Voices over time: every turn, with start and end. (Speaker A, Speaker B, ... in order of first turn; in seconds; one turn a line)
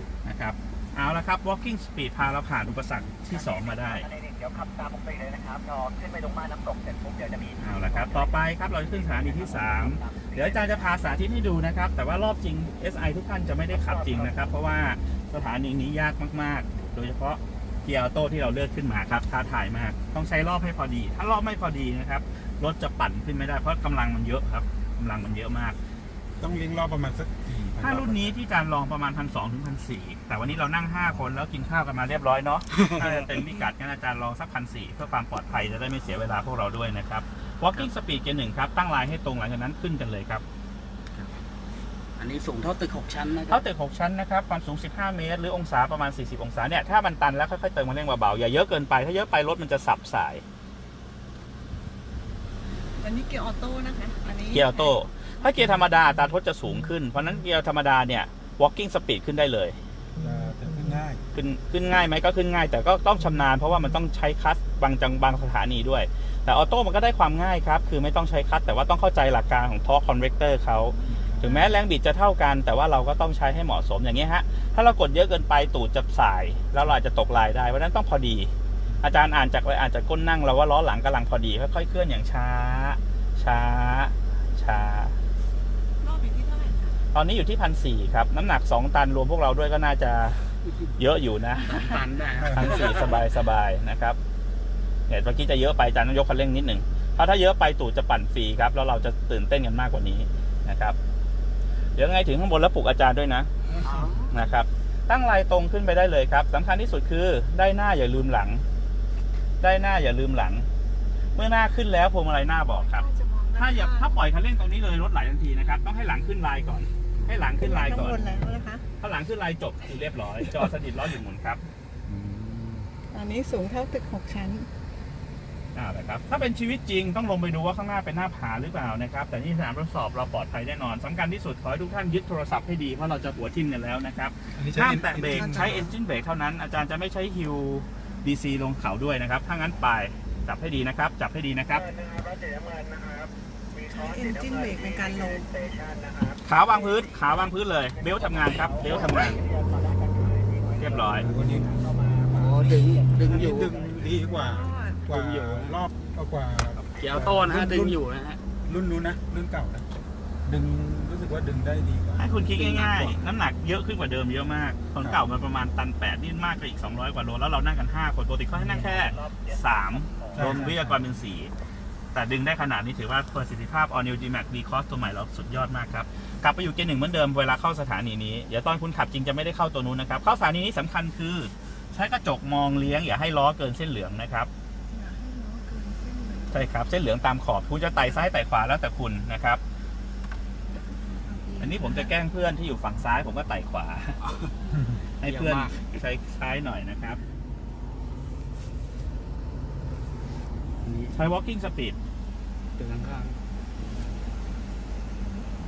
Speaker A: 0.2-4.1
Speaker B: 3.5-8.4
Speaker A: 7.6-25.8
Speaker B: 9.0-10.7
Speaker B: 13.8-14.3
Speaker C: 26.4-28.4
Speaker A: 27.8-40.4
Speaker D: 33.0-33.2
Speaker D: 42.2-43.6
Speaker A: 43.5-50.4
Speaker E: 53.0-55.0
Speaker A: 54.5-59.8
Speaker C: 60.2-61.2
Speaker A: 61.3-85.2
Speaker E: 71.0-71.6
Speaker C: 71.1-71.6
Speaker E: 86.0-87.0
Speaker A: 87.1-94.2
Speaker D: 91.6-93.2
Speaker C: 92.4-92.8
Speaker A: 95.1-101.0
Speaker A: 102.0-103.5
Speaker D: 103.9-104.2
Speaker A: 104.3-108.6
Speaker A: 109.6-110.7
Speaker A: 111.3-118.4
Speaker E: 112.8-114.2
Speaker E: 117.6-118.8
Speaker A: 119.0-121.6
Speaker C: 122.1-122.4
Speaker E: 123.1-124.7
Speaker A: 125.8-141.9
Speaker C: 134.6-135.9
Speaker B: 141.8-153.2
Speaker E: 143.9-145.4
Speaker A: 146.4-149.4
Speaker A: 150.8-151.3
Speaker C: 151.2-151.8
Speaker D: 152.3-153.7
Speaker C: 153.1-158.0
Speaker E: 154.3-155.1
Speaker D: 155.1-155.8
Speaker D: 157.0-158.4
Speaker C: 158.6-159.9
Speaker C: 160.4-162.4
Speaker A: 162.2-171.5
Speaker D: 162.5-163.2
Speaker C: 168.5-169.0
Speaker B: 169.2-170.3
Speaker C: 170.3-171.1
Speaker A: 172.1-184.5
Speaker E: 184.9-186.5
Speaker A: 186.5-189.6
Speaker E: 190.8-192.1
Speaker A: 191.6-194.2
Speaker D: 194.2-194.5
Speaker A: 195.2-197.2
Speaker D: 195.2-196.0
Speaker D: 200.8-201.2
Speaker A: 201.1-202.0
Speaker D: 202.8-203.4